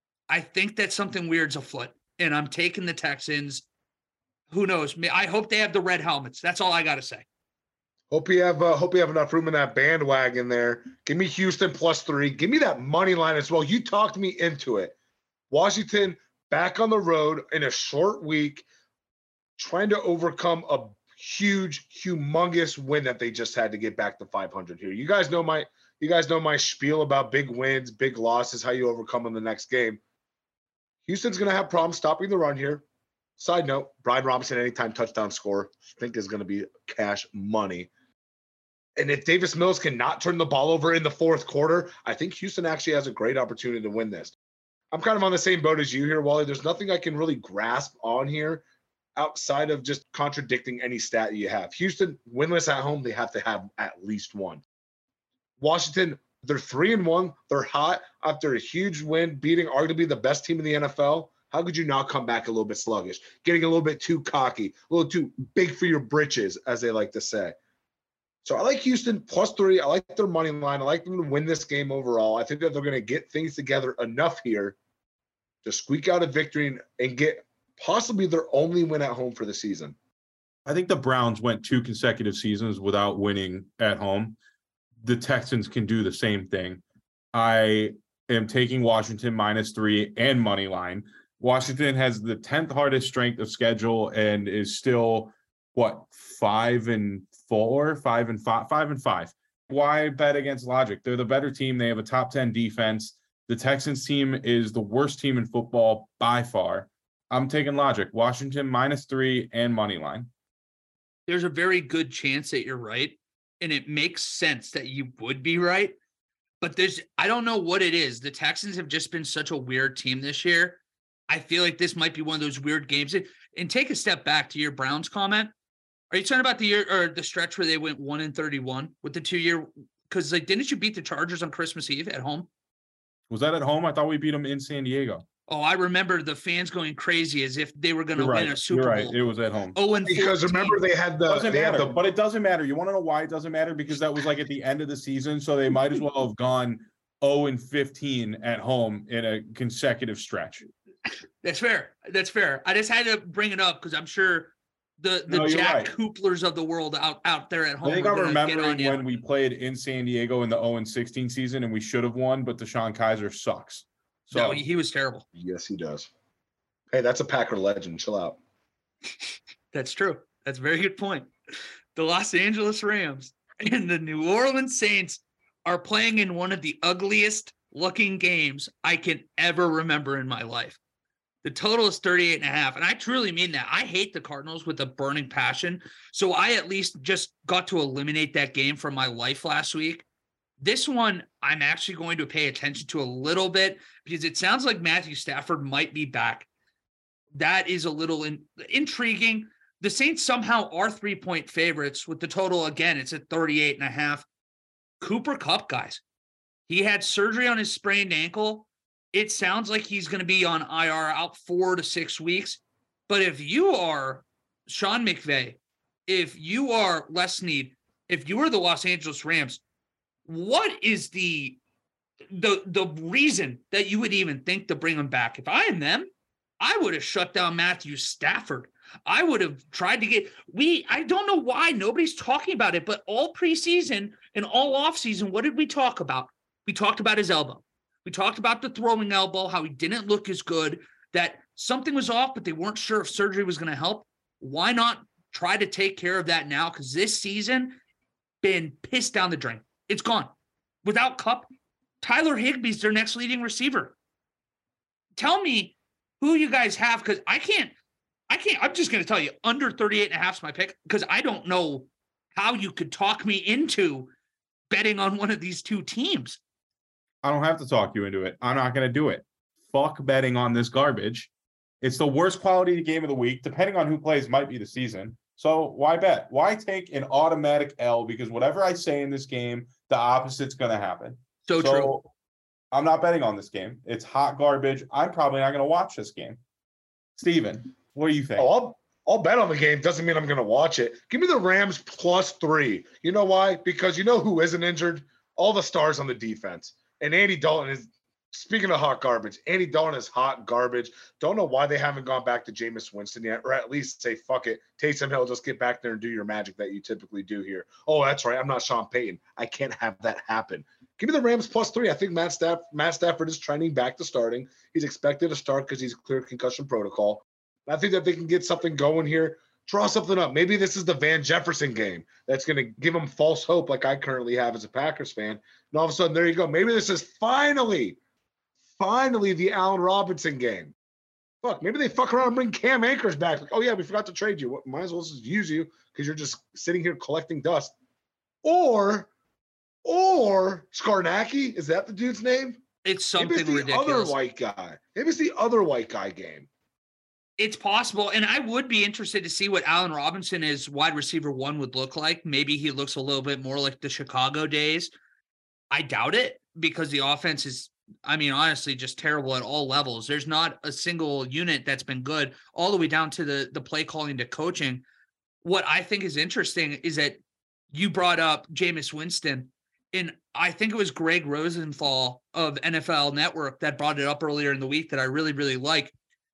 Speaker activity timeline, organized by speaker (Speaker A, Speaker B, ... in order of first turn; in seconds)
Speaker A: 0.3-3.6, 4.5-7.2, 111.3-116.0, 116.6-125.5, 126.1-132.5, 135.5-139.2, 139.7-140.8, 151.4-159.0, 164.3-165.2, 169.7-171.3, 171.9-180.8, 181.4-190.0, 190.6-196.5, 197.3-204.2, 205.0-206.0, 206.7-219.6, 220.2-221.6, 222.3-247.8, 248.4-250.3, 250.8-251.5, 252.0-253.9, 255.2-257.7, 258.3-264.1, 264.7-266.4, 281.4-282.0, 342.8-344.1, 347.4-354.9, 355.7-364.8, 365.4-367.2, 367.7-375.9
Speaker B: 8.1-14.9, 15.5-18.6, 19.6-30.0, 31.1-32.8, 33.4-37.9, 39.0-44.3, 44.9-48.6, 49.1-54.6, 55.6-67.5, 68.4-74.8, 75.6-79.9, 140.1-142.0, 165.3-166.1, 166.9-168.4, 288.4-328.0, 328.8-330.7, 331.4-337.7, 338.4-339.1, 339.8-342.6, 343.1-346.5
Speaker C: 80.7-84.4, 85.0-86.8, 87.3-110.3, 133.3-135.2, 138.2-139.8, 141.2-150.6, 155.3-155.9, 157.8-164.6, 267.2-271.3, 271.8-282.1, 282.7-286.4, 287.2-288.5